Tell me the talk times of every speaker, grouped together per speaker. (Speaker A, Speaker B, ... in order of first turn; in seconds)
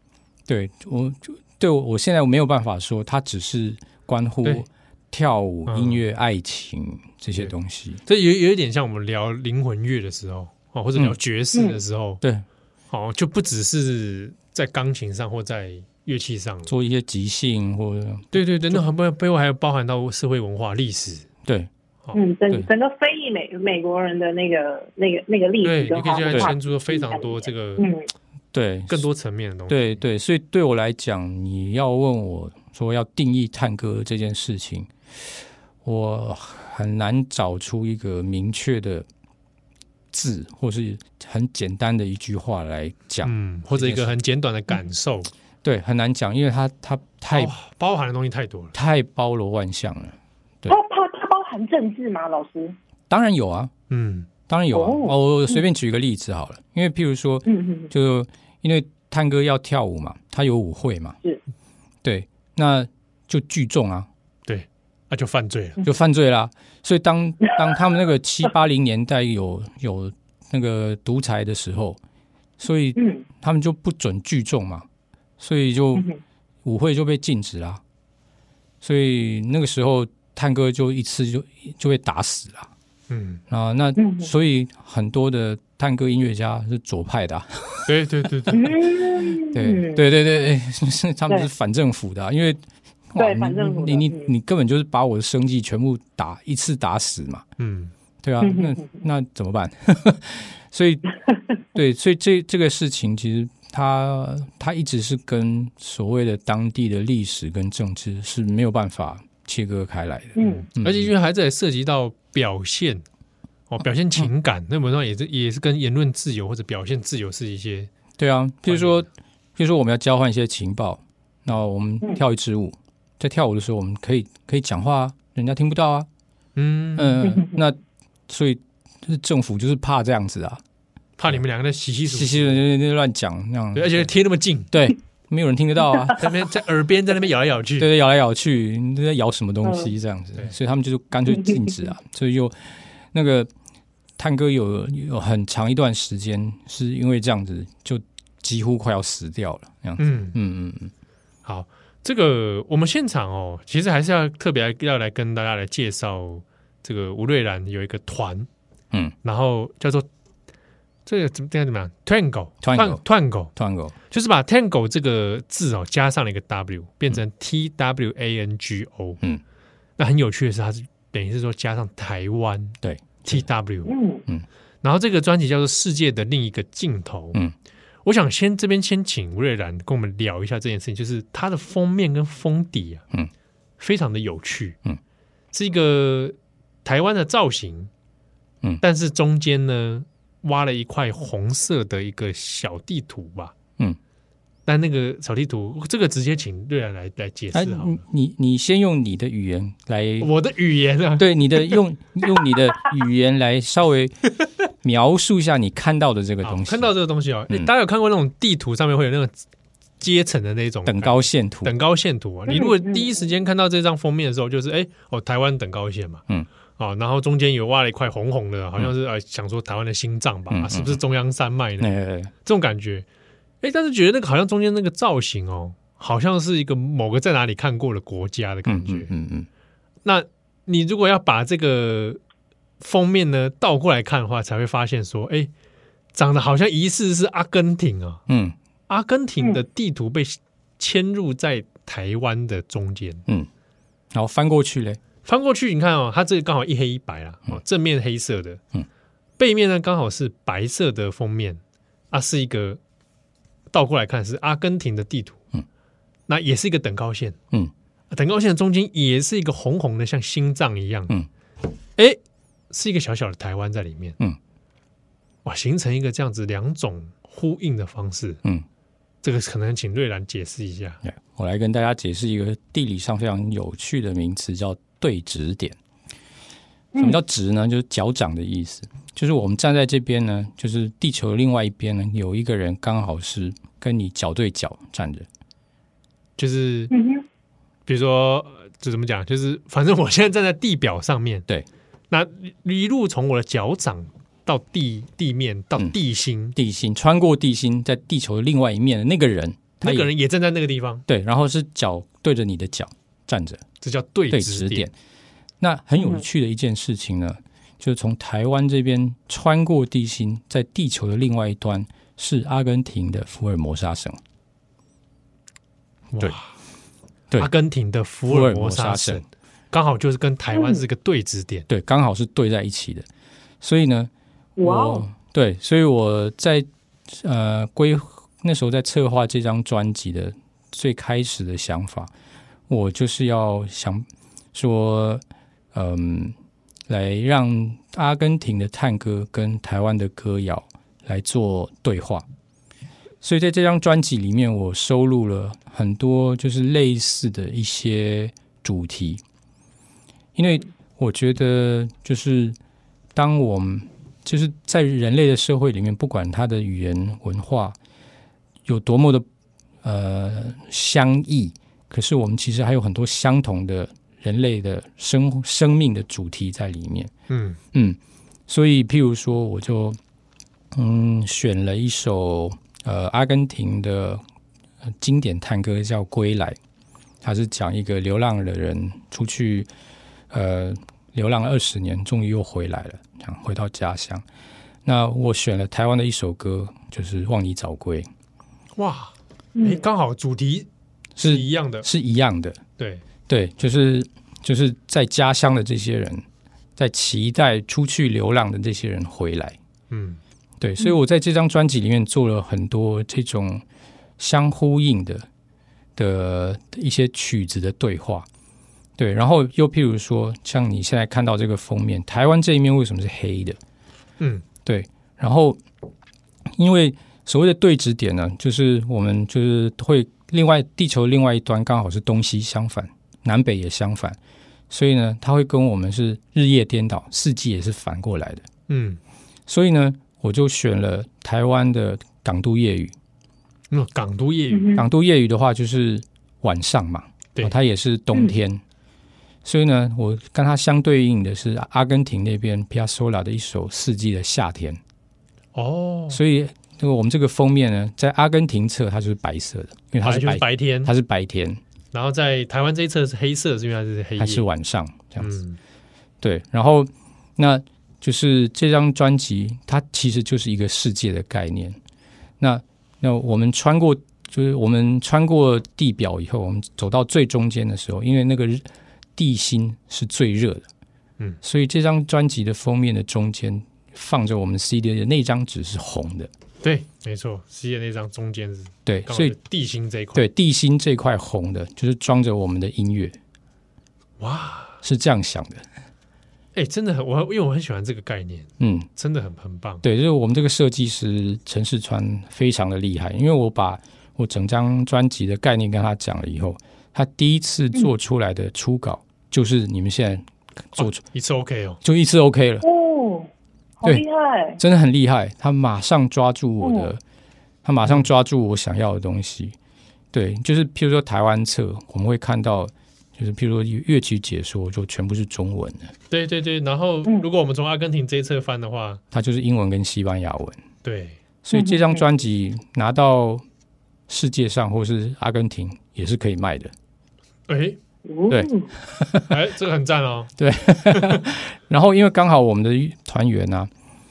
Speaker A: 0.5-8.0, 16.7-18.8, 21.4-21.7, 28.5-29.1, 29.7-39.1, 40.1-44.1, 45.6-47.5, 48.7-50.8, 53.1-53.7, 54.5-61.2, 62.0-64.1, 65.8-72.0, 72.6-74.8, 75.4-76.1, 76.6-77.8, 78.8-82.7, 83.5-87.9, 88.5-88.7, 89.5-92.6, 93.1-97.4, 98.2-101.0, 101.7-111.1, 118.2-126.1, 127.0-130.6, 132.1-134.1, 134.7-136.3, 137.8-143.5, 144.2-150.9, 162.6-163.0, 163.5-163.9, 172.8-173.5, 197.5-200.3, 201.2-204.2, 204.8-206.9, 210.8-211.7, 220.5-221.0, 221.8-222.3, 228.7-229.5, 238.3-238.6, 244.1-245.0, 271.0-275.8, 277.0-285.3, 296.6-300.1, 301.1-303.6, 304.3-304.9, 305.6-314.2, 318.3-319.2, 321.7-323.1, 323.6-324.1, 324.6-332.1, 332.7-335.2, 335.7-336.4, 336.9-342.2, 343.2-349.2, 350.4-352.6, 353.1-357.8, 358.6-359.2, 359.8-367.1, 367.7-370.0, 370.7-374.2, 375.0-376.6, 377.2-379.7, 380.3-384.2, 384.8-388.1, 391.2-392.6, 393.3-396.2, 396.8-399.6, 400.6-403.6, 404.2-405.3, 406.0-408.3, 409.0-413.6, 414.6-415.6, 416.5-424.2, 424.7-428.5, 429.5-432.9, 434.8-438.6, 439.4-444.8, 446.1-451.6, 454.2-455.3, 456.2-461.8, 462.4-470.7, 471.4-476.3, 478.9-479.4, 480.1-483.2, 484.8-485.6, 488.6-488.9, 489.8-501.0, 501.8-502.6, 504.6-507.0, 507.6-509.6, 510.1-515.9, 519.1-520.6, 521.4-523.4, 524.1-526.7, 528.3-529.4, 530.4-533.7
Speaker B: 5.7-6.0, 8.1-12.2, 12.9-16.7, 18.3-21.3, 25.6-27.9, 28.9-30.0, 43.2-45.3, 47.3-48.7, 53.9-54.3, 64.5-65.8, 83.1-83.4, 87.8-88.8, 97.6-97.9, 110.4-113.0, 113.7-117.9, 118.7-119.0, 126.5-127.2, 131.2-132.6, 133.7-134.7, 136.2-137.9, 150.0-150.3, 151.4-158.5, 159.2-160.1, 161.1-163.5, 164.1-169.2, 170.0-173.9, 174.8-177.4, 178.0-183.0, 183.8-184.8, 185.5-187.9, 188.8-193.5, 194.7-198.0, 200.2-201.8, 206.4-209.3, 210.0-216.2, 216.8-221.9, 222.4-223.0, 223.6-229.1, 230.0-232.2, 232.8-235.5, 236.1-238.2, 238.9-243.2, 245.2-248.6, 249.4-252.8, 253.7-255.4, 256.3-257.4, 258.1-261.1, 262.7-264.2, 265.4-268.4, 269.2-271.0, 286.4-286.9, 287.9-291.4, 292.1-296.6, 299.8-301.0, 303.8-304.9, 316.1-316.5, 317.4-321.7, 367.3-367.6, 388.8-390.7, 391.2-391.9, 399.9-400.2, 428.7-429.0, 433.7-434.7, 445.5-446.2, 450.0-450.9, 451.9-454.4, 455.2-455.6, 476.6-480.2, 484.2-484.8, 486.5-489.8, 500.8-501.8, 516.1-519.0, 520.8-521.2, 527.5-527.8, 529.3-530.3, 530.9-531.2
Speaker C: 11.5-11.8, 22.1-28.1, 50.7-52.7, 54.7-55.5, 57.5-57.9, 73.0-73.2, 84.0-84.3, 88.5-90.0, 93.2-94.3, 98.4-98.9, 110.3-110.7, 173.8-174.2, 212.5-213.1, 286.9-287.2, 320.5-320.8, 324.6-325.1, 389.6-389.8, 434.5-434.9, 502.6-503.3, 503.8-504.6, 506.6-506.9, 521.5-522.0, 528.0-528.7